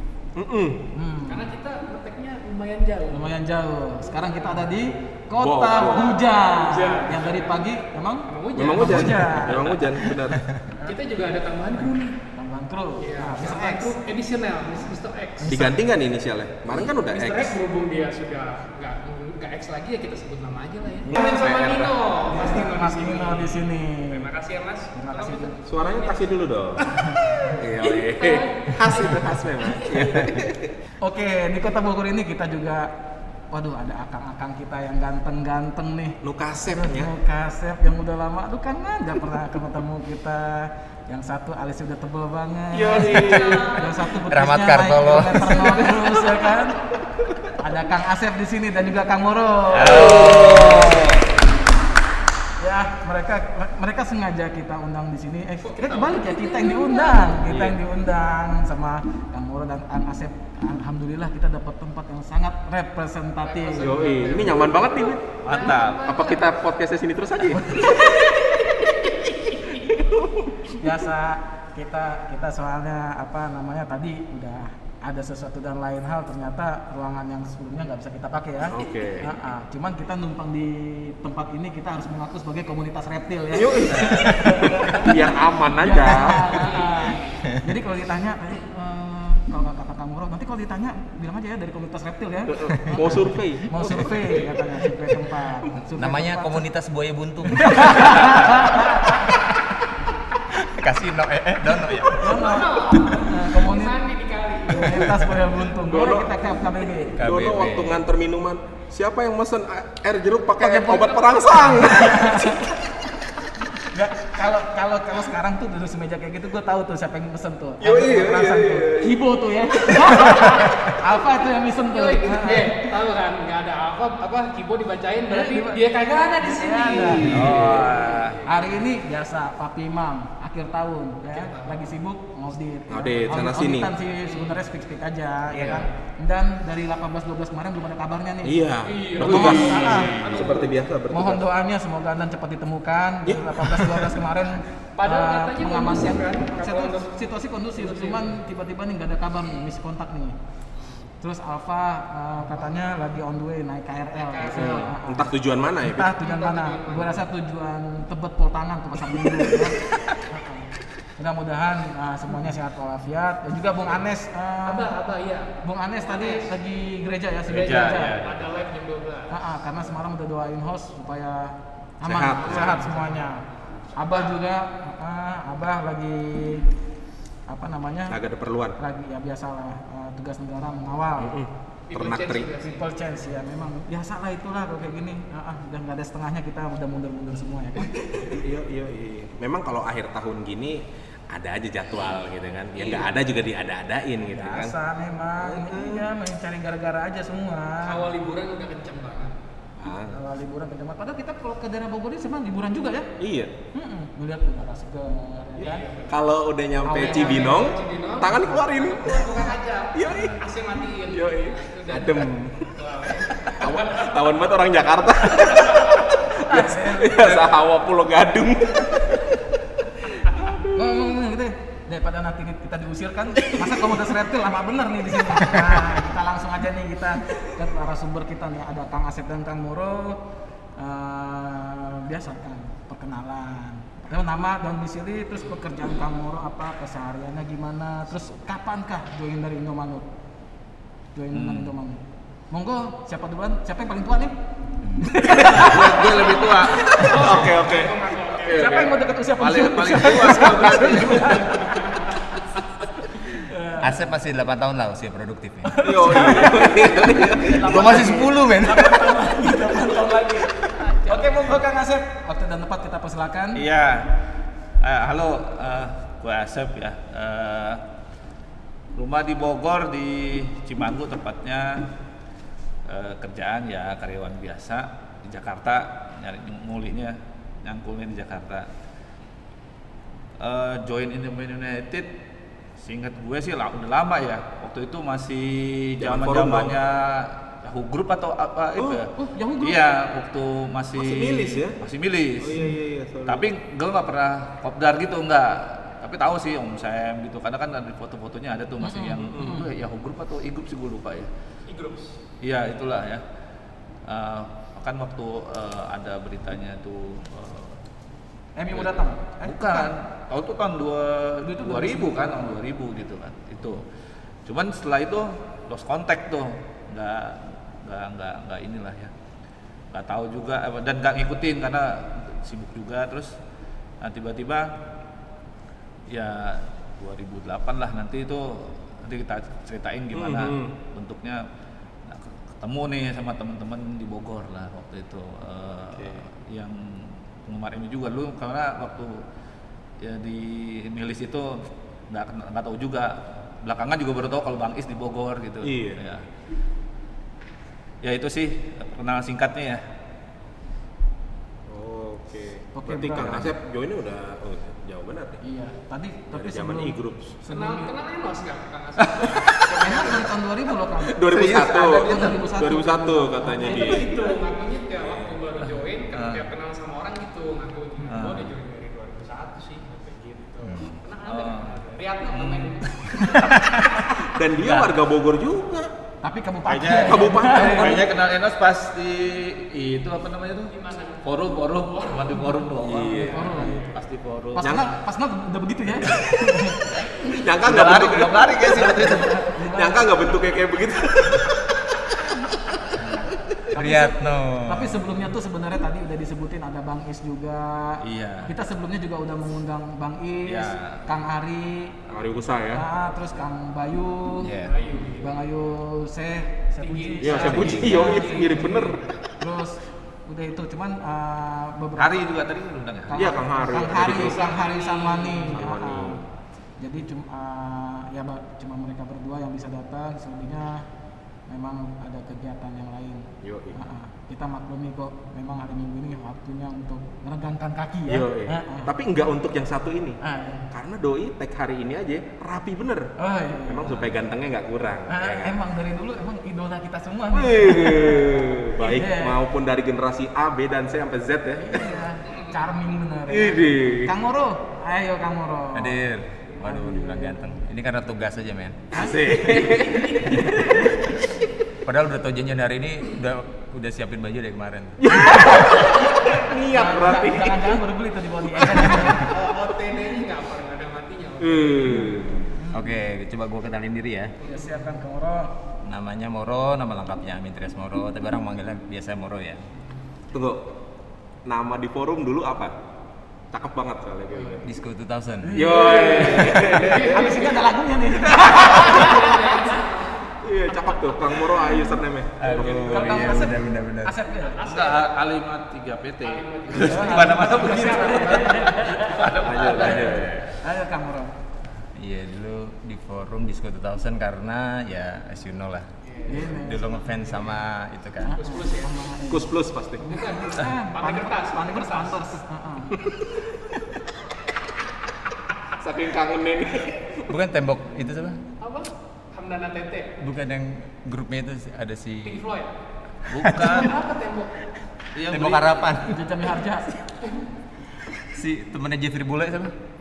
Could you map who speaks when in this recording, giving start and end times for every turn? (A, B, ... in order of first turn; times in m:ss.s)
0:00.4-0:00.9 A
0:00.9-0:01.5 B
0:01.2-0:03.3 C
0:03.1-0:09.8 B
0:05.4-0:06.2 A
0:06.6-0:07.7 C
0:08.2-0:09.2 C
0:08.5-0:10.4 A
0:10.3-0:10.7 D
0:10.8-0:12.2 C
0:12.3-0:14.0 B
0:13.0-0:15.7 C
0:15.4-0:15.8 B
0:15.5-0:17.6 A
0:16.8-0:27.1 C
0:21.0-0:22.0 A
0:22.3-0:24.3 B
0:24.9-0:25.6 B
0:25.7-0:26.9 A
0:27.6-0:30.7 A
0:27.7-0:30.1 C
0:30.0-0:30.4 D
0:31.0-0:32.9 B
0:33.5-0:46.8 B
0:36.2-0:37.1 A
0:42.7-0:43.8 A
0:42.9-0:44.0 C
0:44.2-0:45.6 D
0:45.5-0:46.4 C
0:47.6-0:50.8 B
0:49.7-0:51.2 E
0:49.8-0:51.0 A
0:50.0-0:50.7 D
0:52.6-1:04.3 B
0:55.6-0:57.4 C
0:57.5-0:57.8 A
1:03.4-1:06.5 C
1:03.8-1:05.2 A
1:05.4-1:06.1 E
1:05.9-1:08.9 A
1:09.7-1:10.8 A
1:10.8-1:36.6 B
1:18.7-1:19.3 A
1:23.5-1:26.6 A
1:26.4-1:27.4 C
1:32.5-1:34.5 A
1:35.9-1:39.5 D
1:37.5-1:39.3 B
1:40.5-1:42.4 D
1:42.2-1:44.0 B
1:42.2-1:45.0 C
1:44.7-1:47.2 B
1:45.8-1:46.6 A
1:47.2-1:52.8 A
1:47.2-1:48.0 D
1:50.6-1:52.7 B
1:53.8-2:02.9 B
1:57.8-1:59.2 A
2:00.2-2:00.5 C
2:01.8-2:08.7 C
2:05.3-2:07.6 B
2:07.2-2:08.0 A
2:07.3-2:08.4 E
2:08.4-2:20.5 B
2:11.3-2:11.9 C
2:12.9-2:13.9 A
2:14.2-2:14.6 C
2:15.5-2:15.8 A
2:15.6-2:15.9 C
2:18.4-2:21.4 A
2:18.8-2:20.7 C
2:21.1-2:30.4 B
2:23.2-2:24.1 A
2:25.0-2:27.1 C
2:27.7-2:28.4 C
2:30.8-2:31.1 C
2:31.2-2:44.9 B
2:34.2-2:34.9 C
2:34.5-2:36.1 A
2:36.1-2:37.2 C
2:44.6-2:46.5 C
2:45.6-2:48.2 B
2:47.5-2:48.4 E
2:47.5-2:49.4 C
2:49.3-2:53.4 B
2:52.0-2:52.8 A
2:52.4-2:53.3 C
2:53.9-2:56.7 B
2:57.5-2:58.2 B
2:58.1-2:58.8 A
2:58.8-3:01.4 B
3:01.2-3:02.5 A
3:01.9-3:02.9 C
3:02.5-3:08.4 B
3:08.3-3:14.7 A
3:14.3-3:18.0 B
3:15.4-3:16.1 A
3:17.8-3:19.4 C
3:19.8-3:20.2 A
3:20.0-3:23.1 B
3:23.2-3:23.5 A
3:23.7-3:25.9 B
3:25.6-3:26.2 C
3:26.1-3:30.4 A
3:26.8-3:27.7 B
3:26.9-3:34.2 C
3:31.1-3:32.8 A
3:33.4-3:39.4 A
3:35.5-3:35.8 C
3:36.5-3:37.4 B
3:40.0-3:41.1 A
3:40.7-3:50.2 B
3:50.8-4:00.1 B
4:01.1-4:04.4 B
4:01.3-4:01.7 E
4:05.0-4:06.0 B
4:05.3-4:07.4 E
4:05.5-4:06.3 A
4:06.5-4:08.9 C
4:07.0-4:09.0 A
4:08.5-4:11.7 B
4:09.4-4:11.6 E
4:11.2-4:12.3 C
4:13.3-4:14.0 B
4:13.8-4:16.3 D
4:15.7-4:23.7 B
4:15.8-4:17.7 A
4:17.3-4:19.3 D
4:20.8-4:21.3 C
4:23.6-4:24.1 E
4:24.8-4:27.8 E
4:28.9-4:31.9 E
4:32.8-4:38.7 E
4:40.4-4:42.2 E
4:42.8-4:52.6 E
4:46.0-4:46.7 A
4:49.1-4:49.8 B
4:50.9-4:51.8 A
4:52.4-4:53.5 A
4:53.2-5:01.3 E
4:58.8-4:59.7 B
4:59.3-4:59.6 A
5:01.7-5:02.2 C
5:02.4-5:03.2 E
5:04.0-5:07.8 E
5:08.6-5:09.9 B
5:08.7-5:13.8 E
5:11.4-5:12.6 B
5:14.4-5:19.1 E
5:19.9-5:23.3 E
5:24.0-5:24.7 E
5:26.1-5:31.4 E
5:30.1-5:30.7 A
5:32.1-5:39.2 E
5:35.9-5:36.3 A
5:40.0-5:46.3 E
5:45.6-5:46.0 A
5:48.0-5:49.8 E
5:51.7-5:55.4 A
5:52.7-5:53.5 B
5:55.4-5:57.9 B
5:56.3-5:57.4 A
5:57.5-6:00.3 C
5:59.0-5:59.6 E
5:59.7-6:04.4 B
6:01.0-6:04.1 A
6:03.6-6:13.6 C
6:05.0-6:05.3 A
6:06.1-6:06.4 E
6:08.1-6:08.5 E
6:11.2-6:11.8 E
6:12.3-6:15.0 E
6:14.2-6:15.9 A
6:16.2-6:18.0 B
6:16.7-6:24.8 E
6:16.8-6:18.1 A
6:20.7-6:22.6 C
6:22.8-6:23.9 A
6:23.2-6:23.8 B
6:23.4-6:23.9 C
6:24.6-6:27.1 B
6:24.6-6:24.9 A
6:27.2-6:32.4 A
6:27.6-6:29.3 E
6:28.7-6:30.1 B
6:33.7-6:42.0 B
6:33.7-6:35.0 D
6:38.0-6:38.5 E
6:40.5-6:41.0 E
6:42.1-6:42.8 A
6:42.7-6:44.5 B
6:44.5-6:45.4 C
6:45.2-6:52.3 B
6:46.8-6:48.9 C
6:47.2-6:49.0 A
6:52.0-6:53.4 E
6:53.1-6:56.2 B
6:53.1-6:54.5 A
6:54.0-6:55.6 C
6:55.5-6:56.2 A
6:56.8-7:00.8 B
7:01.5-7:08.9 B
7:03.4-7:03.8 A
7:08.1-7:10.2 A
7:10.2-7:10.7 B
7:10.7-7:13.1 A
7:13.2-7:14.1 B
7:13.7-7:15.6 A
7:15.1-7:19.4 B
7:17.3-7:21.9 A
7:21.6-7:26.0 B
7:22.3-7:22.6 C
7:23.3-7:24.1 A
7:25.7-7:29.0 D
7:26.6-7:27.4 B
7:28.9-7:31.5 A
7:29.0-7:30.9 B
7:31.8-7:35.4 D
7:35.0-7:37.8 A
7:35.4-7:39.3 B
7:38.9-7:42.1 C
7:41.4-7:42.5 A
7:42.5-7:43.0 B
7:42.7-7:44.3 D
7:44.4-7:44.8 C
7:44.4-7:45.5 B
7:45.8-7:49.6 D
7:50.3-7:50.7 A
7:51.4-7:52.8 A
7:53.5-7:54.7 A
7:54.6-7:55.6 D
7:55.4-7:59.6 B
7:55.5-7:57.5 A
7:55.8-7:57.6 C
7:58.4-8:00.2 C
8:00.4-8:03.3 A
8:02.4-8:03.2 E
8:02.6-8:04.1 D
8:02.6-8:04.6 B
8:04.4-8:05.2 C
8:04.6-8:10.5 E
8:06.2-8:08.8 C
8:06.7-8:09.2 B
8:09.4-8:10.4 A
8:09.8-8:11.3 B
8:12.0-8:18.4 D
8:16.2-8:17.6 B
8:18.2-8:19.5 B
8:18.3-8:19.0 C
8:19.3-8:20.4 A
8:20.0-8:22.3 C
8:20.4-8:23.1 B
8:25.8-8:27.3 A
8:27.3-8:28.4 D
8:28.6-8:30.2 C
8:30.2-8:32.4 D
8:32.2-8:32.7 C
8:33.3-8:34.0 E
8:33.5-8:34.6 C
8:35.1-8:36.0 E
8:35.3-8:36.2 D
8:36.0-8:37.1 B
8:38.2-8:39.8 D